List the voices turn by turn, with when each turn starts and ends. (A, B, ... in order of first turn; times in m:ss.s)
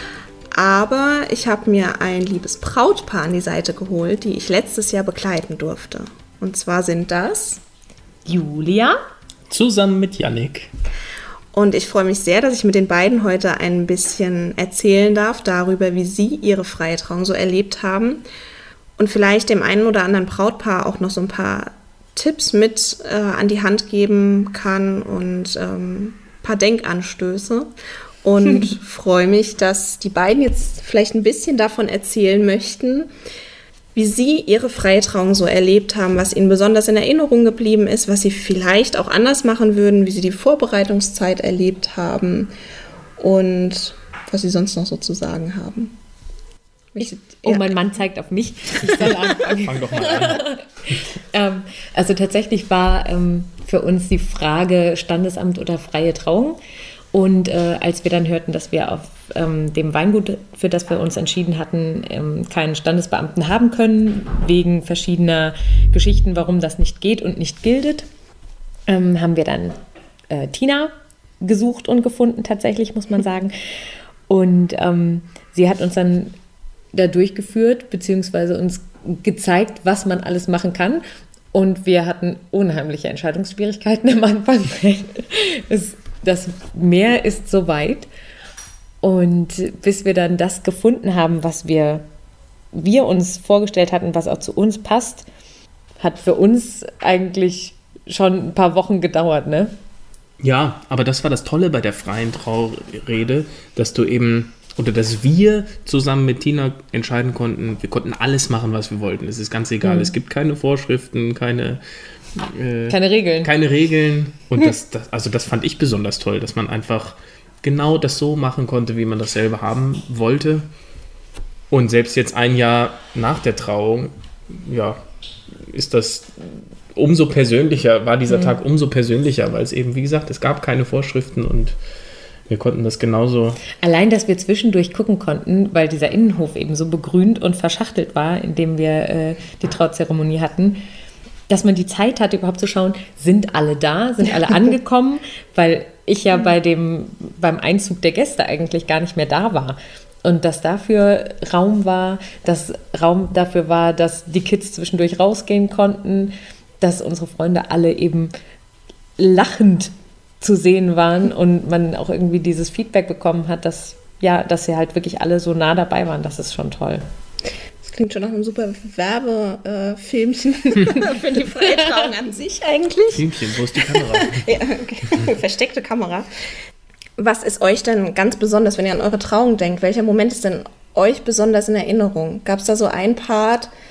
0:00.5-0:07.6 A
0:08.3-0:09.0 B
0:09.5-0:10.7 C
0:11.5-0:18.2 A
0:19.0-0:27.7 A
0:28.2-0:33.1 A
0:34.0-0:42.5 A
0:43.2-0:45.9 A
0:46.9-0:47.8 A
0:47.0-0:56.6 B
0:49.6-0:50.5 C
0:57.1-1:08.1 B
1:08.9-1:09.8 B
1:10.3-1:16.4 B
1:16.9-1:28.1 B
1:29.0-1:32.0 B
1:32.7-1:35.3 B
1:36.0-1:39.7 B
1:40.4-1:51.8 C
1:49.8-1:50.1 B
1:52.3-2:00.7 C
1:52.9-1:53.5 B
2:01.7-2:05.0 C
2:05.6-2:11.8 C
2:08.3-2:08.6 B
2:12.5-2:13.6 C
2:13.7-2:20.8 B
2:21.5-2:38.3 B
2:39.2-2:47.0 B
2:47.8-2:56.3 A
2:53.1-2:54.6 C
2:57.2-3:03.7 A